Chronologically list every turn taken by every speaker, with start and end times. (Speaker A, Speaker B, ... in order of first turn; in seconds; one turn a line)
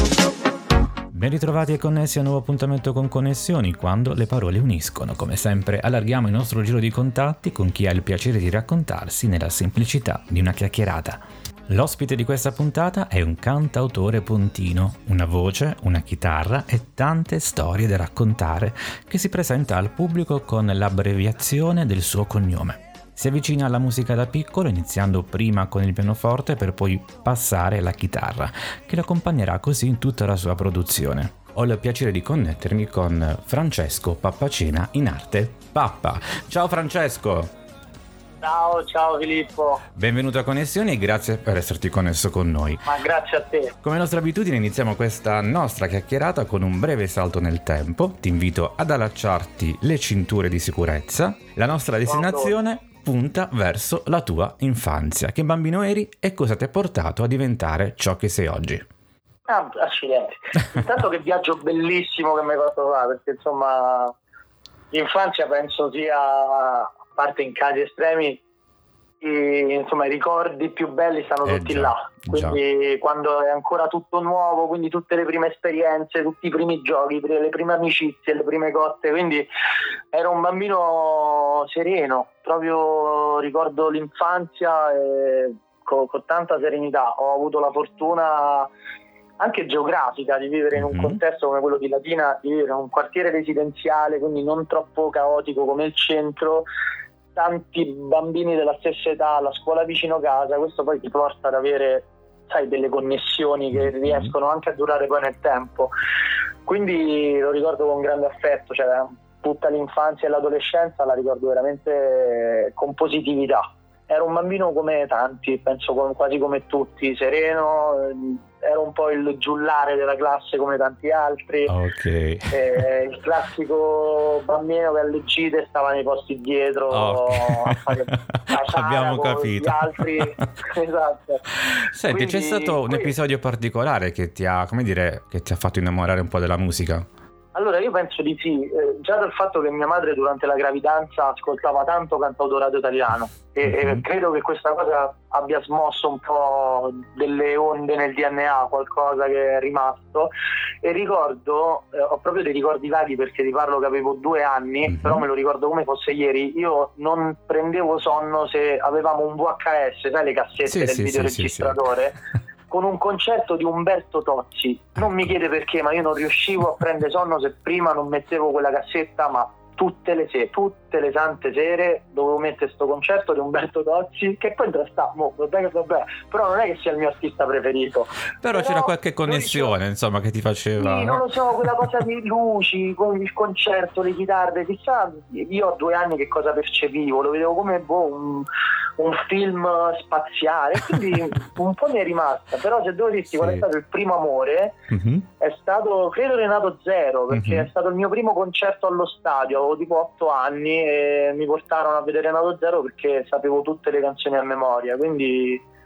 Speaker A: 1.1-37.5
Speaker B: 38.4-39.8
Speaker A: 40.0-42.9
Speaker B: 42.9-43.8
Speaker A: 43.8-58.8
Speaker B: 52.0-52.5
Speaker B: 59.5-64.1
Speaker B: 64.9-68.4
Speaker B: 69.2-79.5
Speaker A: 71.4-72.6
Speaker B: 80.1-88.7
Speaker B: 89.4-96.7
Speaker A: 90.7-91.2
Speaker B: 97.3-105.9
Speaker A: 103.7-104.3
Speaker B: 106.7-121.7
Speaker A: 121.7-122.8
Speaker B: 122.5-131.4
Speaker A: 126.9-130.3
Speaker A: 131.7-137.1
Speaker B: 132.1-133.1
Speaker B: 137.5-150.3
Speaker A: 143.6-144.0
Speaker B: 150.8-162.2
Speaker A: 154.9-155.2
Speaker A: 160.6-161.8
Speaker B: 162.7-179.8
Speaker A: 178.4-181.9
Speaker B: 180.8-194.8
Speaker A: 193.3-193.6
Speaker A: 194.9-195.3
Speaker B: 195.4-205.6
Speaker A: 197.3-197.7